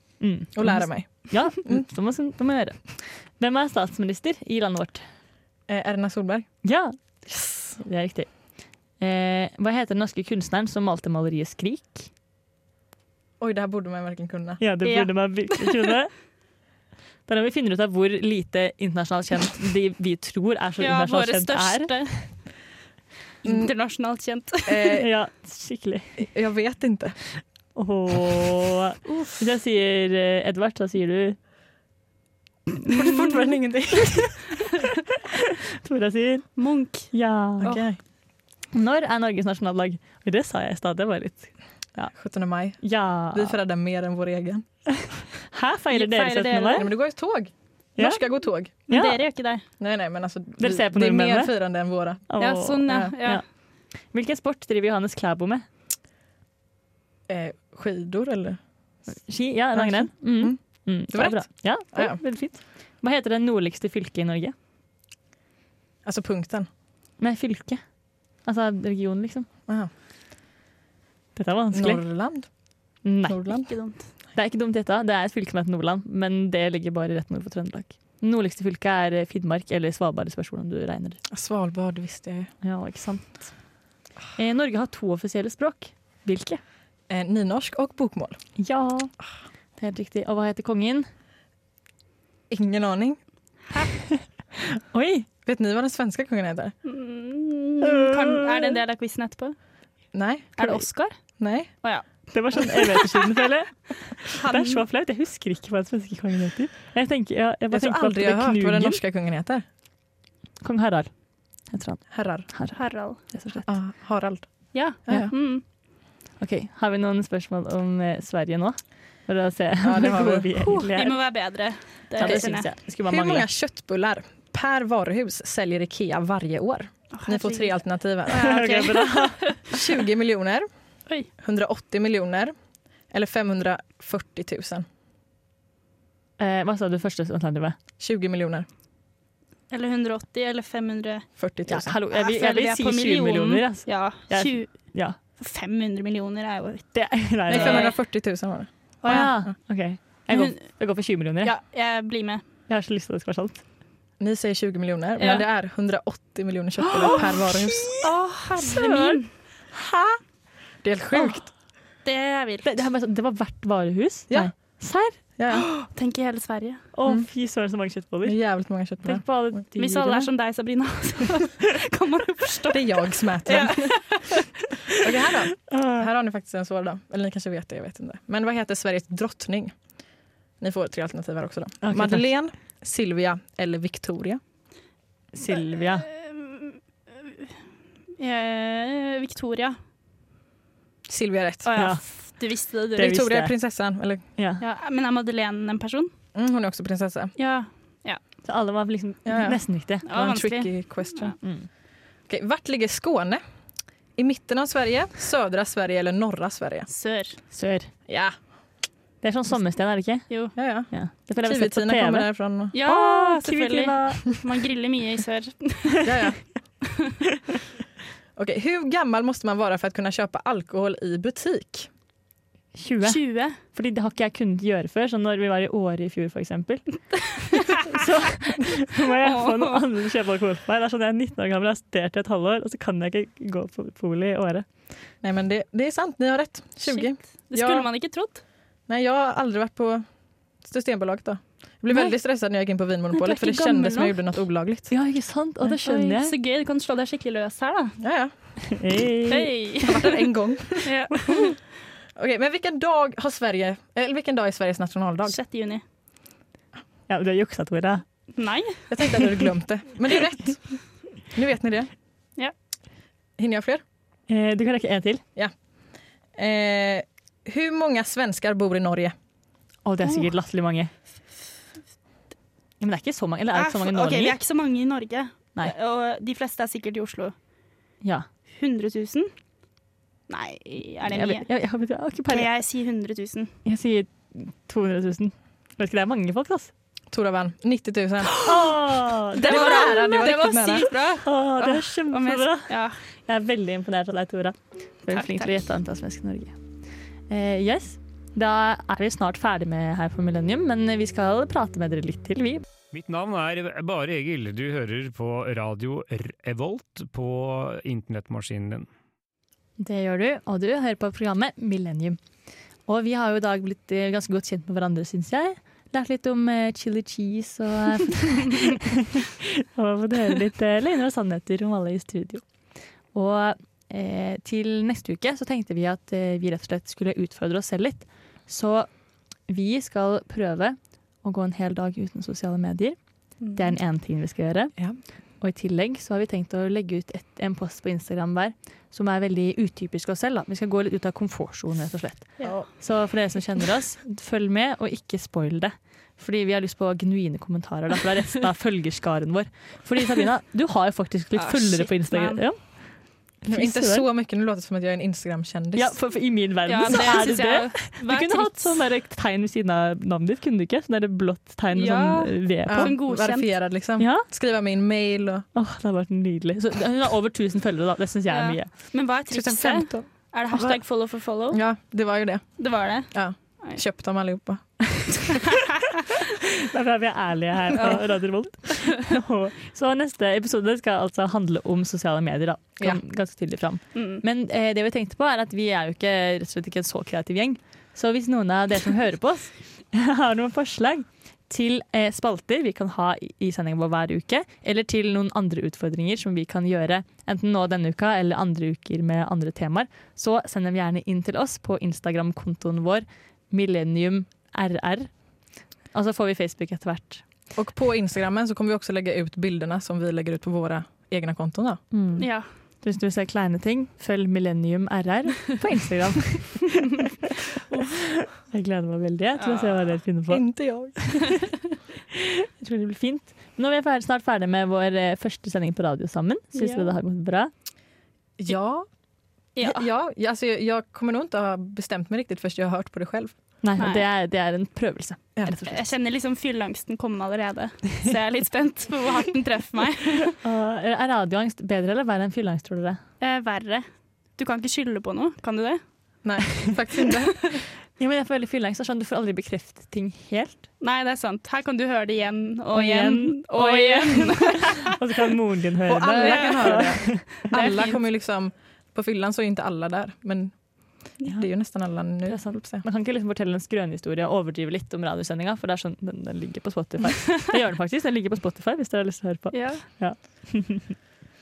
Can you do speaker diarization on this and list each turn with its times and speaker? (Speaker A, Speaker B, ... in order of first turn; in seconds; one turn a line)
Speaker A: 0.2-5.1
Speaker B: 0.5-1.9
Speaker B: 5.7-6.5
Speaker A: 6.6-12.1
Speaker B: 13.4-14.6
Speaker A: 14.6-16.1
Speaker C: 14.8-15.9
Speaker A: 17.3-22.1
Speaker C: 20.8-22.1
Speaker C: 23.4-24.9
Speaker B: 23.4-23.7
Speaker B: 24.7-25.1
Speaker A: 24.9-26.2
Speaker B: 26.2-27.2
Speaker A: 27.8-31.4
Speaker B: 32.9-34.5
Speaker A: 35.8-36.6
Speaker C: 36.6-37.9
Speaker A: 37.1-37.7
Speaker B: 37.6-38.0
Speaker A: 38.7-42.1
Speaker B: 42.1-44.7
Speaker A: 42.8-43.6
Speaker A: 45.5-46.9
Speaker C: 46.0-46.9
Speaker B: 46.8-48.8
Speaker A: 48.0-48.2
Speaker A: 48.9-49.2
Speaker C: 48.9-49.6
Speaker B: 49.8-52.3
Speaker A: 50.6-51.5
Speaker A: 52.3-53.4
Speaker C: 52.4-53.4
Speaker A: 54.1-55.6
Speaker B: 57.3-58.6
Speaker A: 59.1-64.5
Speaker B: 59.7-62.2
Speaker B: 66.0-66.7
Speaker A: 67.2-67.8
Speaker A: 68.4-69.5
Speaker A: 71.4-72.0
Speaker B: 71.7-72.5
Speaker A: 73.0-73.8
Speaker B: 73.3-73.7
Speaker C: 73.7-74.1
Speaker A: 74.3-81.2
Speaker B: 81.3-82.5
Speaker A: 82.6-83.5
Speaker A: 84.3-86.6
Speaker B: 87.1-88.4
Speaker A: 88.6-89.1
Speaker A: 89.8-91.1
Speaker B: 92.5-93.2
Speaker A: 94.7-95.3
Speaker B: 95.5-96.8
Speaker C: 96.8-99.6
Speaker A: 97.8-98.8
Speaker B: 100.1-100.6
Speaker C: 100.6-101.2
Speaker B: 101.4-101.7
Speaker C: 101.8-102.9
Speaker A: 102.3-109.0
Speaker C: 104.4-104.8
Speaker B: 107.7-109.6
Speaker A: 110.6-111.1
Speaker A: 111.7-113.7
Speaker B: 112.1-112.5
Speaker C: 112.8-113.2
Speaker B: 113.7-115.3
Speaker C: 114.7-115.6
Speaker A: 116.4-121.4
Speaker B: 119.8-120.8
Speaker C: 120.9-122.7
Speaker A: 122.2-123.5
Speaker B: 122.2-128.6
Speaker C: 127.1-129.8
Speaker A: 128.3-129.6
Speaker B: 129.7-130.7
Speaker B: 131.4-132.6
Speaker B: 133.1-134.8
Speaker A: 136.4-137.8
Speaker B: 138.0-138.7
Speaker C: 139.7-141.3
Speaker B: 141.4-142.0
Speaker A: 141.7-145.2
Speaker C: 142.1-146.9
Speaker A: 146.9-147.9
Speaker C: 147.5-148.0
Speaker B: 147.5-149.5
Speaker C: 149.0-149.3
Speaker A: 149.1-151.6
Speaker C: 150.3-150.7
Speaker C: 151.4-152.4
Speaker A: 152.7-153.6
Speaker B: 154.2-158.1
Speaker C: 155.2-155.4
Speaker C: 156.9-159.3
Speaker A: 158.7-158.9
Speaker B: 158.9-159.2
Speaker B: 159.7-160.2
Speaker B: 160.8-161.5
Speaker C: 162.0-162.7
Speaker A: 162.6-165.2
Speaker B: 164.3-164.7
Speaker B: 165.4-165.7
Speaker C: 165.5-166.9
Speaker A: 166.9-168.4
Speaker B: 168.2-170.0
Speaker A: 169.0-170.3
Speaker C: 169.8-174.4
Speaker B: 172.7-174.2
Speaker B: 174.9-179.8
Speaker A: 175.7-176.1
Speaker B: 180.6-184.4
Speaker A: 181.8-182.3
Speaker A: 185.3-186.1
Speaker C: 185.5-187.5
Speaker C: 188.2-189.8
Speaker B: 191.1-191.7
Speaker C: 191.6-193.1
Speaker A: 191.8-192.0
Speaker A: 192.9-193.6
Speaker B: 193.0-194.2
Speaker A: 194.4-194.6
Speaker C: 194.6-196.1
Speaker B: 196.3-197.3
Speaker C: 197.4-198.2
Speaker A: 198.4-200.1
Speaker B: 199.3-201.4
Speaker C: 200.1-201.4
Speaker A: 201.4-201.7
Speaker B: 202.3-203.4
Speaker B: 204.2-206.9
Speaker C: 206.9-207.4
Speaker A: 207.5-207.9
Speaker B: 208.1-208.4
Speaker A: 209.2-214.2
Speaker B: 210.6-210.9
Speaker B: 211.4-212.7
Speaker C: 212.7-216.0
Speaker B: 216.0-216.5
Speaker B: 218.4-221.9
Speaker A: 222.8-227.0
Speaker C: 223.0-223.6
Speaker A: 227.8-234.7
Speaker C: 229.2-229.8
Speaker B: 235.2-237.9
Speaker C: 236.9-238.4
Speaker B: 238.9-240.1
Speaker B: 240.6-244.9
Speaker C: 243.2-244.2
Speaker A: 244.9-246.3
Speaker C: 245.8-248.0
Speaker B: 248.0-248.3
Speaker A: 248.7-249.5
Speaker C: 249.3-250.2
Speaker B: 249.8-251.1
Speaker C: 250.8-251.6
Speaker B: 252.2-255.4
Speaker C: 255.3-255.8
Speaker A: 257.1-258.1
Speaker C: 258.4-258.9
Speaker B: 258.9-261.9
Speaker B: 263.4-263.8
Speaker A: 264.3-265.2
Speaker B: 266.4-269.1
Speaker A: 269.9-270.9
Speaker A: 272.8-274.4
Speaker C: 273.6-277.4
Speaker C: 278.5-279.3
Speaker C: 280.3-281.5
Speaker A: 281.1-282.5
Speaker C: 282.3-283.6
Speaker A: 283.6-286.7
Speaker B: 287.1-288.5
Speaker A: 288.4-290.0
Speaker C: 289.4-293.0
Speaker B: 289.4-290.9
Speaker A: 291.2-292.8
Speaker A: 293.3-296.6
Speaker C: 295.1-295.5
Speaker A: 297.3-302.6
Speaker D: 302.9-308.9
Speaker A: 309.8-312.2
Speaker A: 312.9-322.4
Speaker A: 323.1-328.9
Speaker A: 329.5-333.0
Speaker C: 333.4-333.8
Speaker A: 333.5-334.8
Speaker A: 335.4-352.6
Speaker C: 342.4-342.6
Speaker C: 351.4-352.4
Speaker B: 353.5-356.0
Speaker A: 353.5-354.1
Speaker A: 355.8-362.9
Speaker C: 356.7-358.8
Speaker B: 356.9-357.3
Speaker C: 361.7-363.6
Speaker B: 362.7-365.5
Speaker A: 364.0-364.2
Speaker A: 365.6-368.7
Speaker C: 368.3-371.6
Speaker B: 369.3-370.8
Speaker B: 371.5-375.4
Speaker C: 372.6-373.8
Speaker A: 376.7-405.1
Speaker C: 383.9-384.2
Speaker A: 405.9-407.2
Speaker B: 407.6-411.8
Speaker A: 411.9-417.0
Speaker C: 412.2-412.5
Speaker A: 418.0-420.4
Speaker C: 419.4-420.0
Speaker B: 420.3-421.4
Speaker A: 422.1-427.5
Speaker C: 426.6-426.9
Speaker B: 428.4-428.9
Speaker C: 429.6-429.9
Speaker B: 429.6-433.4
Speaker A: 433.6-435.9
Speaker C: 433.8-434.1
Speaker C: 435.7-440.4
Speaker A: 440.4-443.0
Speaker C: 443.2-445.8
Speaker B: 446.2-447.6
Speaker A: 448.0-450.6
Speaker C: 450.8-454.9
Speaker A: 452.7-457.5
Speaker B: 455.9-460.6
Speaker C: 456.1-458.0
Speaker B: 461.4-462.8
Speaker A: 462.3-471.0
Speaker C: 469.5-469.9